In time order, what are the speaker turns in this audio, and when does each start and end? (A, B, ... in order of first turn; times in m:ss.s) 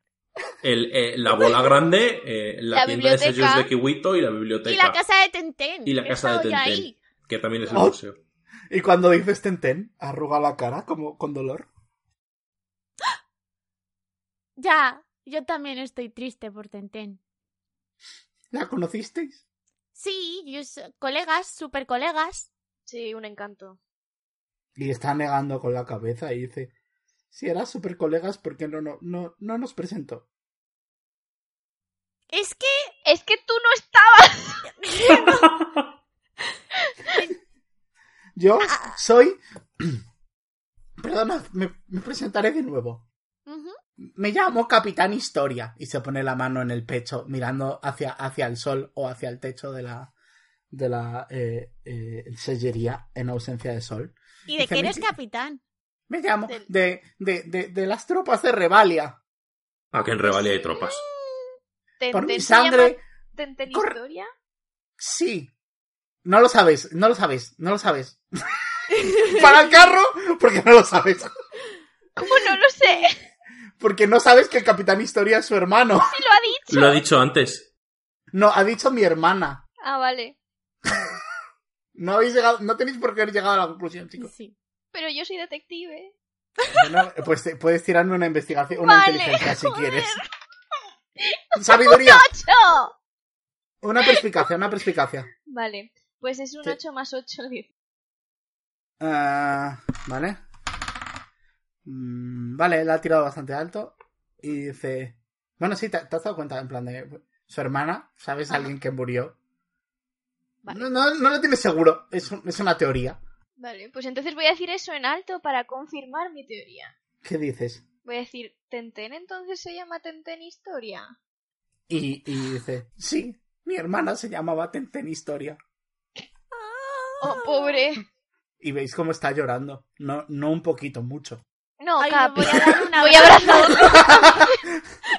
0:00.6-0:05.0 A
0:02.7-0:03.7 B
0:04.6-0:07.0 C
0:05.8-0:08.2 A
0:07.7-0:08.0 D
0:08.7-0:11.7 D
0:14.6-0:17.2 C
0:18.5-0:19.4 D
0:19.9-0:22.5 C
0:22.9-0:23.8 B
0:24.8-0:26.7 D
0:27.3-0:30.2 D
0:32.3-0:32.9 C
0:33.0-0:34.7 B
0:34.9-0:35.5 C
0:38.4-0:40.0 D
0:41.0-0:43.0 D
0:43.5-0:43.8 C
0:44.0-0:50.1 D
0:50.7-0:55.1 D
0:54.5-0:55.6 C
0:56.1-0:59.2 D
0:59.9-1:01.0 A
1:00.7-1:01.5 C
1:02.0-1:04.3 B
1:02.1-1:03.0 D
1:03.7-1:04.0 D
1:05.0-1:05.5 D
1:06.2-1:08.2 D
1:09.2-1:11.3 D
1:12.2-1:13.2 B
1:13.8-1:16.2 D
1:16.1-1:17.0 B
1:16.7-1:17.7 A
1:18.3-1:19.6 D
1:19.8-1:20.4 B
1:20.8-1:21.1 D
1:21.9-1:24.3 D
1:24.2-1:24.5 C
1:24.9-1:26.2 B
1:26.7-1:30.2 D
1:28.7-1:30.3 B
1:31.2-1:32.9 B
1:31.6-1:32.3 D
1:33.8-1:35.3 D
1:34.0-1:34.3 B
1:35.5-1:37.7 B
1:39.0-1:40.4 D
1:41.8-1:49.4 D
1:50.7-1:53.2 D
1:53.6-1:56.9 B
1:57.2-1:57.8 D
1:58.0-2:01.1 B
2:01.9-2:05.6 D
2:06.5-2:07.8 C
2:07.2-2:08.0 B
2:08.6-2:11.4 D
2:11.8-2:14.6 B
2:12.0-2:14.4 C
2:12.4-2:14.8 D